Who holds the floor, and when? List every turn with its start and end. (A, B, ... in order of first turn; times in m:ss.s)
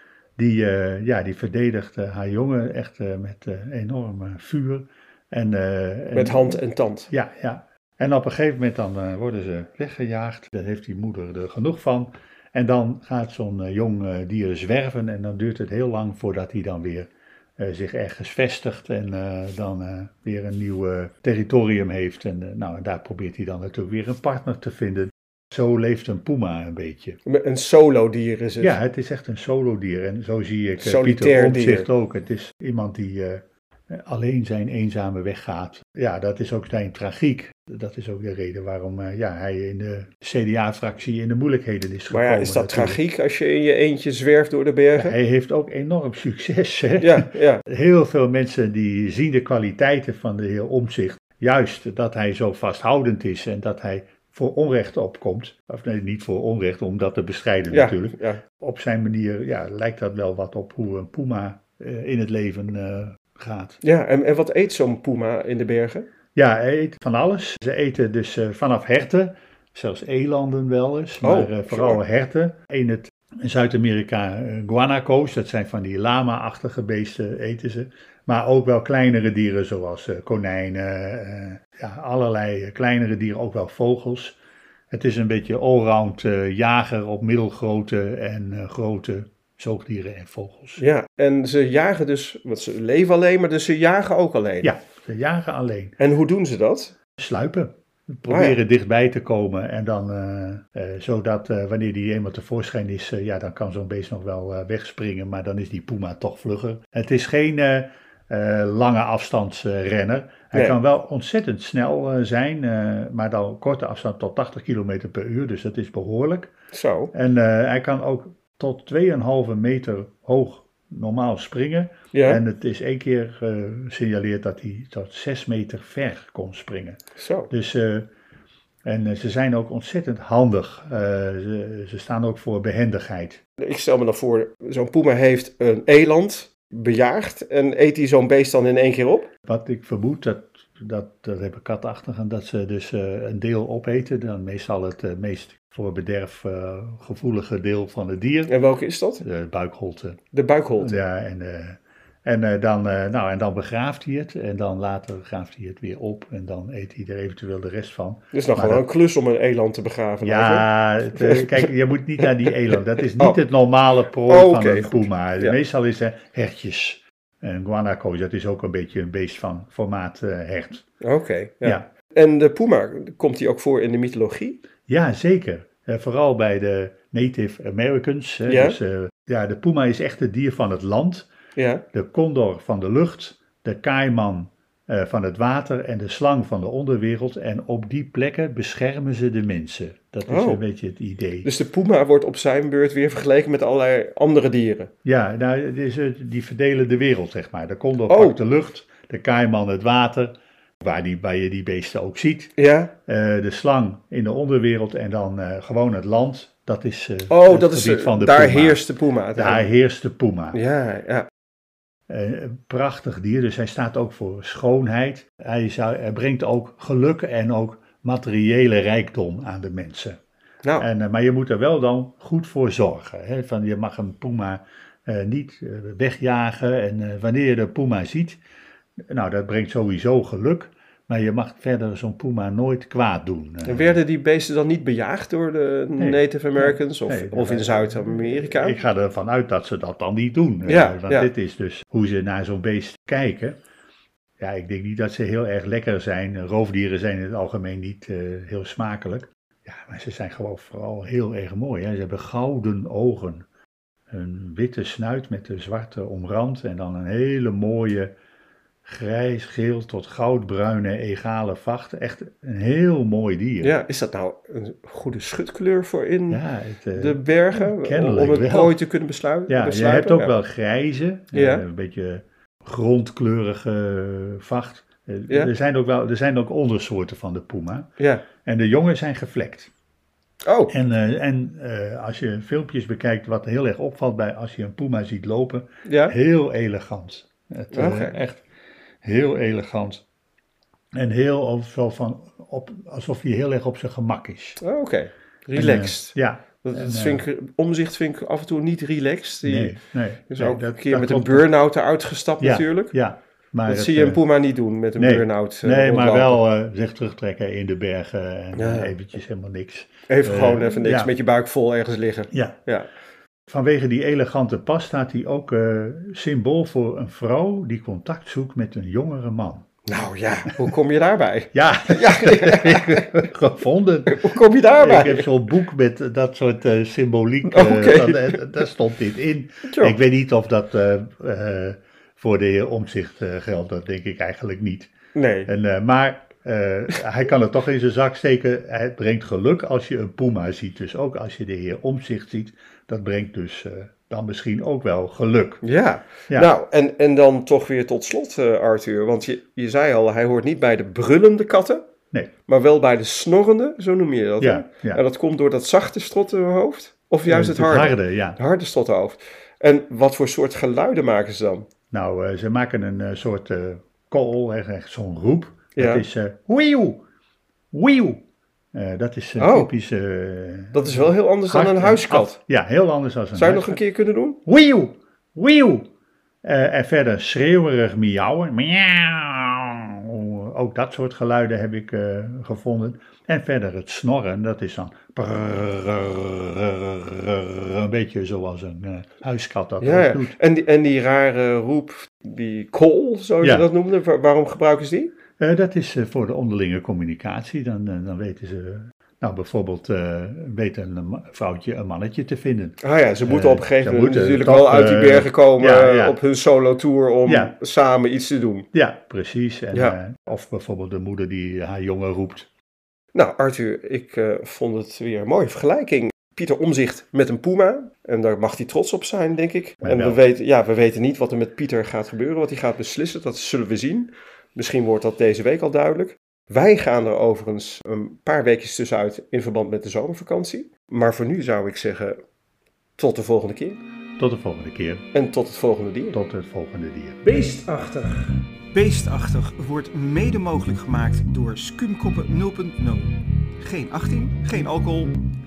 0:00.4-0:27.2 A
0:06.1-0:07.1 B
0:27.2-0:28.8 B
0:28.6-0:43.0 A
0:30.8-0:31.9 B
0:42.1-0:45.2 B
0:45.0-1:03.8 A
0:47.0-0:47.6 B
0:57.7-0:58.4 B
1:03.8-1:06.1 B
1:06.3-1:24.4 A
1:11.2-1:12.0 B
1:24.9-1:30.8 A
1:30.8-1:34.7 B
1:34.6-1:36.0 A
1:36.0-1:36.9 B
1:37.2-1:56.5 A
1:38.3-1:38.6 B
1:50.5-1:50.8 B
1:56.7-1:57.1 B
1:57.1-2:07.0 A
2:02.1-2:02.4 B
2:07.2-2:07.5 B
2:07.5-2:08.1 A
2:08.8-2:13.4 A
2:13.6-2:19.3 B
2:19.5-2:28.6 A
2:28.5-2:29.2 B
2:29.2-2:30.2 A
2:30.3-2:31.0 B
2:30.8-2:38.8 A
2:38.3-2:43.4 B
2:40.2-2:50.8 A
2:44.3-2:45.6 B
2:51.0-2:54.6 B
2:54.9-3:01.3 A
2:58.5-2:58.8 B
3:01.6-3:01.8 B
3:01.9-3:11.5 A
3:10.3-3:10.6 B
3:11.4-3:14.9 B
3:15.0-3:22.5 A
3:18.1-3:18.4 B
3:22.6-3:22.9 B
3:23.1-3:28.8 A
3:27.3-3:29.7 B
3:29.3-3:30.6 A
3:30.5-3:31.3 B
3:32.1-3:40.2 A
3:40.8-3:48.4 A
3:49.1-3:54.0 A
3:53.6-3:58.8 B
3:56.0-4:03.6 A
4:00.6-4:01.3 B
4:04.4-4:13.4 A
4:14.1-4:18.1 A
4:18.8-4:23.8 A
4:23.6-4:26.4 B
4:26.3-4:28.8 A
4:26.9-4:30.3 B
4:29.5-4:37.9 A
4:31.3-4:31.6 B
4:38.0-4:38.2 B
4:38.4-4:39.7 A
4:40.4-4:40.7 B
4:40.7-4:48.4 A
4:45.8-4:46.2 B
4:47.7-4:48.2 B
4:49.0-4:50.0 A
4:50.9-4:54.6 A
4:54.6-5:02.9 B
4:55.5-4:57.2 A
4:59.4-5:01.5 A
5:02.4-5:04.2 A
5:03.7-5:06.4 B
5:05.0-5:11.1 A
5:08.5-5:08.9 B
5:10.1-5:12.9 B
5:12.3-5:12.6 A
5:13.5-5:19.6 A
5:19.8-5:23.1 B
5:21.5-5:34.9 A
5:24.1-5:25.3 B
5:27.4-5:28.4 B
5:29.7-5:30.0 B
5:35.1-5:35.5 B
5:35.5-5:45.6 A
5:45.6-5:51.9 B
5:52.4-6:01.7 B
5:54.4-5:55.0 A
5:57.2-5:58.4 A
6:01.9-6:07.0 A
6:05.8-6:06.0 B
6:07.7-6:08.2 A
6:08.7-6:13.8 A
6:09.4-6:09.7 B
6:10.7-6:12.4 B
6:13.3-6:14.4 B
6:14.4-6:15.9 A
6:16.4-6:30.4 A
6:29.8-6:35.1 B
6:33.4-6:33.7 A
6:35.4-6:46.2 A
6:42.8-6:48.7 B
6:47.2-6:47.5 A
6:48.7-6:52.5 A
6:53.1-7:12.2 B
6:59.8-7:00.3 A
7:13.0-7:13.8 B
7:14.2-7:15.0 A
7:15.1-7:16.2 B
7:16.1-7:17.2 A
7:17.3-7:18.2 B
7:17.3-7:17.7 C
7:18.7-7:25.0 C
7:21.0-7:21.9 B
7:24.6-7:25.0 B